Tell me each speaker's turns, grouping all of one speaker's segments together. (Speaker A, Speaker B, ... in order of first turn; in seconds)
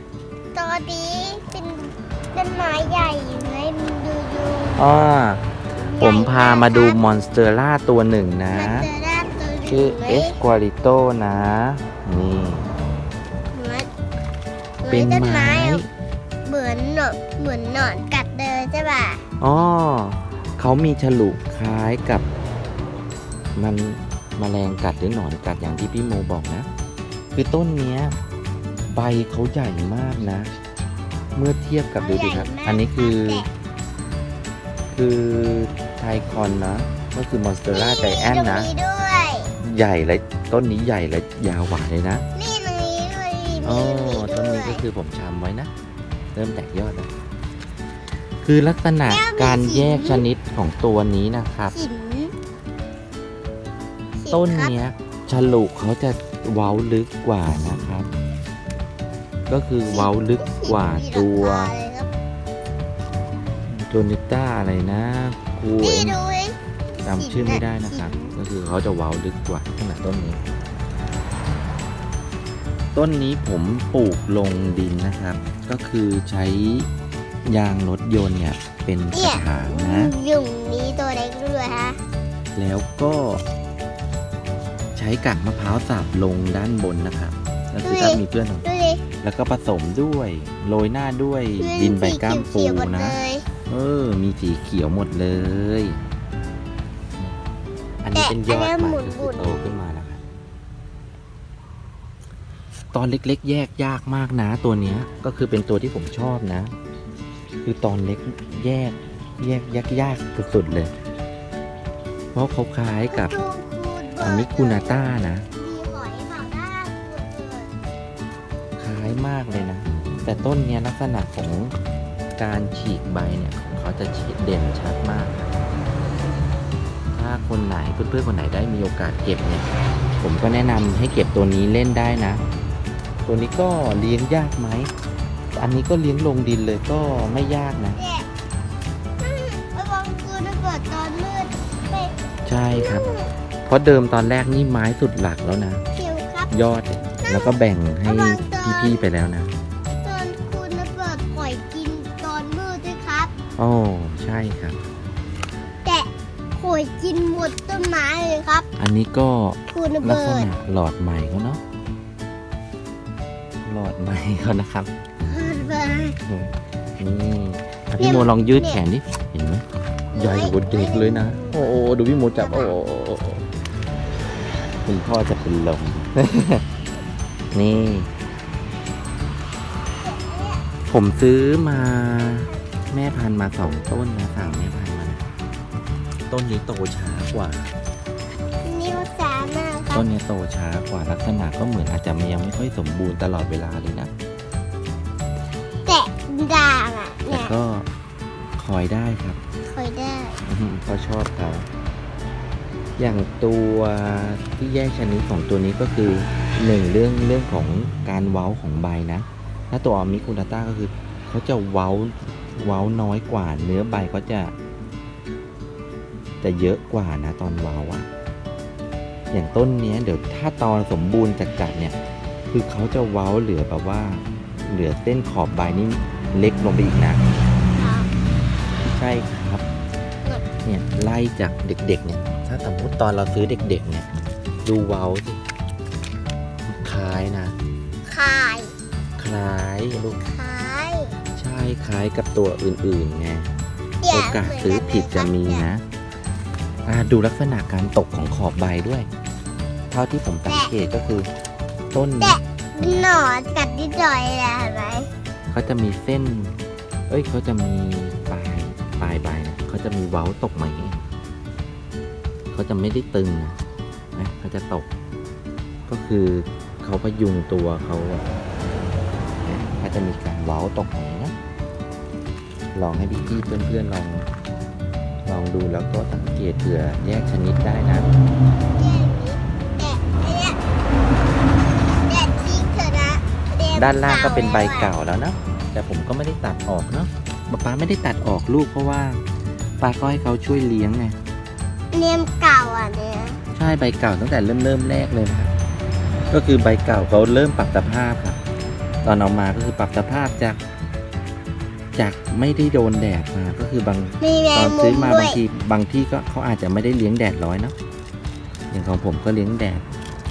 Speaker A: 0.5-4.8, 5.8-7.0, 8.5-10.4, 13.5-13.9, 14.8-15.8, 16.4-19.2, 32.0-33.5, 37.7-39.5, 42.3-44.8, 49.0-50.2, 51.7-52.3, 54.1-54.7, 59.9-62.1, 65.8-68.3, 79.1-82.0, 87.8-89.0, 91.6-93.4, 98.1-99.7, 113.1-117.7, 138.0-138.3, 139.2-142.1, 142.7-143.3, 145.9-146.5, 147.2-149.1, 150.0-153.3, 155.8-158.7, 159.7-160.5, 165.2-166.2, 168.0-168.8, 170.1-172.8, 180.0-180.6, 188.6-190.1, 195.8-197.5, 199.6-200.4, 227.7-228.1, 238.0-238.7, 240.2-241.2, 244.0-245.7, 250.4-250.7, 252.2-255.1, 278.8-280.6, 282.0-284.9, 291.9-293.4, 304.2-305.4
Speaker B: 4.8-5.4, 6.0-8.9, 9.7-12.7, 14.9-15.9, 19.4-22.2, 23.6-26.7, 27.3-28.1, 28.9-30.5, 31.3-33.5, 34.9-38.7, 39.6-42.2, 43.6-45.7, 46.3-47.1, 48.4-51.8, 54.3-58.1, 59.5-61.7, 63.7-66.2, 67.0-70.4, 72.9-76.9, 77.4-80.1, 82.5-83.4, 84.9-88.7, 89.2-96.0, 98.0-100.2, 102.9-106.7, 107.6-110.9, 112.3-113.4, 114.2-115.5, 118.8-121.7, 122.3-125.5, 127.1-129.7, 130.2-132.4, 133.2-134.9, 135.5-138.0, 142.4-143.1, 143.7-145.8, 146.5-149.5, 153.6-154.8, 158.8-161.6, 163.6-164.9, 166.2-169.6, 170.1-173.4, 174.8-176.6, 177.5-178.1, 180.9-185.2, 186.3-187.7, 189.9-194.1, 197.3-197.9, 198.6-199.4, 200.4-201.7, 203.0-214.5, 216.4-218.1, 219.3-221.9, 222.5-227.2, 228.9-229.6, 230.6-234.1, 234.6-235.4, 236.7-237.6, 239.2-240.2, 241.3-243.5, 244.1-245.8, 246.8-249.1, 249.9-251.3, 251.9-253.1, 255.5-256.5, 257.1-261.1, 262.5-263.6, 264.1-264.9, 265.9-268.2, 269.4-271.3, 272.7-274.3, 275.2-278.1, 283.7-289.2, 289.8-291.2, 293.5-295.5, 296.3-298.4, 299.0-300.6, 301.9-307.7, 308.7-309.8